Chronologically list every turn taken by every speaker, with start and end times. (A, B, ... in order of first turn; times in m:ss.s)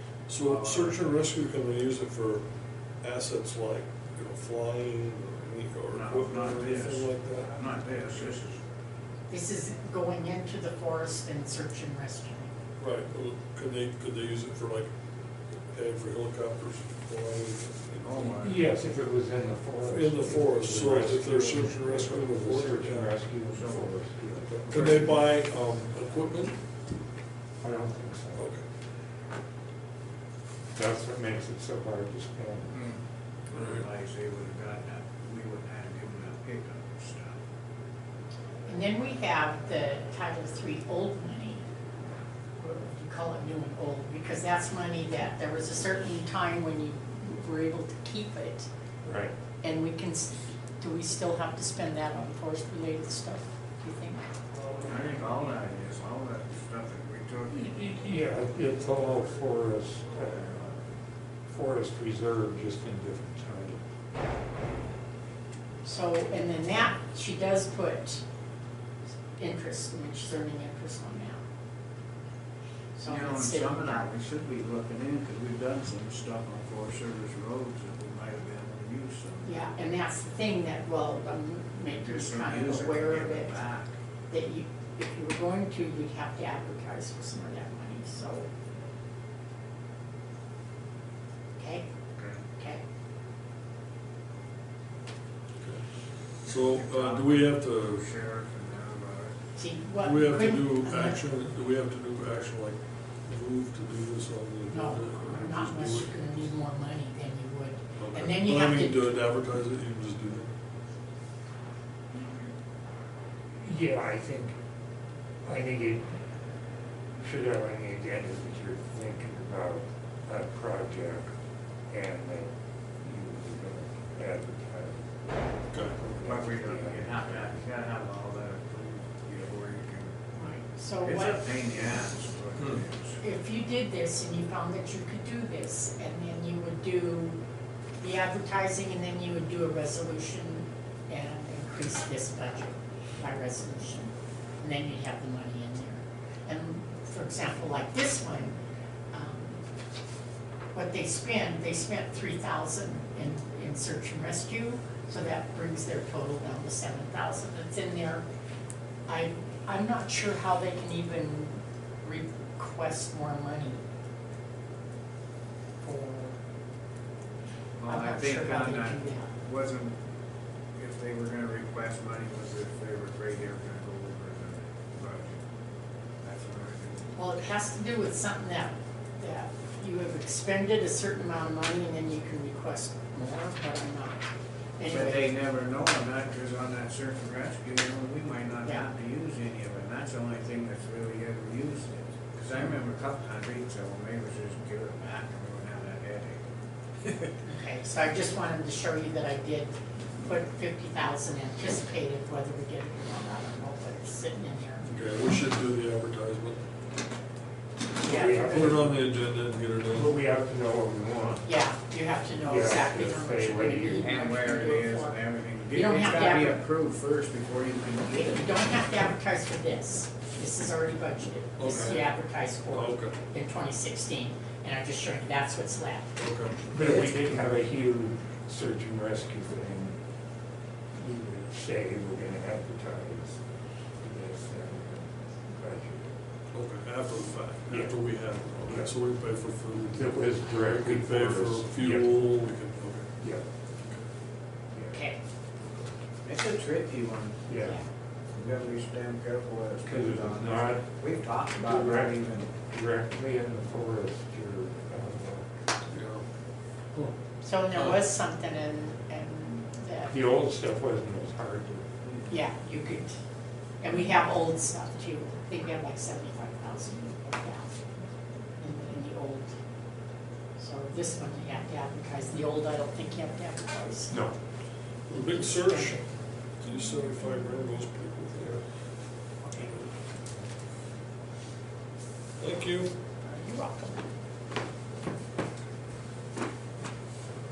0:00.3-0:02.4 A
0:00.4-0:01.0 B
0:03.0-0:07.5 A
0:05.9-0:08.6 B
0:09.3-0:12.6 C
0:12.8-0:14.9 A
0:15.7-0:18.4 A
0:18.0-0:18.6 B
0:18.4-0:25.2 D
0:19.8-0:23.2 A
0:23.5-0:24.0 B
0:24.5-0:26.6 A
0:27.6-0:28.5 D
0:28.4-0:28.6 A
0:30.7-0:32.8 D
0:32.7-0:33.0 B
0:33.5-0:37.4 B
0:33.5-0:33.8 A
0:38.6-0:41.6 C
0:42.6-0:48.7 C
0:49.0-0:49.3 D
0:49.6-0:54.2 C
0:54.8-0:57.8 B
0:57.5-1:00.9 D
1:01.5-1:03.8 D
1:05.8-1:08.2 C
1:09.4-1:11.4 C
1:13.0-1:14.1 C
1:13.0-1:19.5 B
1:19.4-1:23.6 C
1:21.9-1:23.9 B
1:24.3-1:28.5 C
1:31.6-1:31.8 C
1:32.2-1:32.4 B
1:32.5-1:32.8 C
1:35.6-1:35.8 A
1:36.4-1:38.0 A
1:36.5-1:39.4 B
1:39.6-1:41.2 C
1:40.0-1:46.4 A
1:44.7-1:49.1 C
1:48.0-1:50.5 A
1:53.6-1:54.5 D
1:55.4-1:56.1 D
1:57.2-2:01.3 D
2:01.9-2:02.5 D
2:03.0-2:07.6 D
2:05.7-2:06.0 A
2:06.2-2:10.4 B
2:10.4-2:11.5 C
2:11.0-2:13.2 B
2:13.2-2:17.4 C
2:18.0-2:28.6 C
2:29.1-2:29.6 C
2:30.7-2:38.2 C
2:39.1-2:43.8 C
2:45.8-2:46.4 C
2:47.8-2:49.9 B
2:47.9-2:49.3 C
2:50.8-2:55.4 B
2:56.2-2:57.1 B
2:57.1-3:04.3 C
3:04.8-3:05.3 C
3:04.9-3:16.4 B
3:17.4-3:24.9 C
3:24.8-3:26.6 A
3:28.0-3:28.7 C
3:28.0-3:29.0 D
3:28.5-3:30.1 A
3:29.9-3:31.5 D
3:31.4-3:35.2 C
3:32.4-3:34.1 D
3:33.9-3:38.4 B
3:35.7-3:36.6 C
3:38.2-3:46.2 C
3:41.6-3:43.1 A
3:46.2-3:46.7 A
3:46.7-3:50.0 D
3:50.9-3:53.4 D
3:54.0-3:56.2 D
3:56.5-4:03.1 A
3:57.7-3:57.9 D
3:59.9-4:02.2 D
4:04.9-4:05.2 C
4:06.2-4:07.4 B
4:07.5-4:07.8 D
4:07.6-4:07.8 C
4:08.4-4:12.5 B
4:09.8-4:10.8 D
4:11.6-4:15.5 D
4:15.9-4:16.2 A
4:17.4-4:20.2 C
4:17.7-4:18.0 A
4:20.1-4:22.1 D
4:22.3-4:23.2 C
4:23.8-4:27.7 C
4:28.6-4:29.5 C
4:30.6-4:34.2 C
4:35.1-4:36.0 A
4:35.1-4:36.0 C
4:36.6-4:38.6 A
4:39.4-4:39.8 C
4:42.4-4:42.9 A
4:43.2-4:44.1 C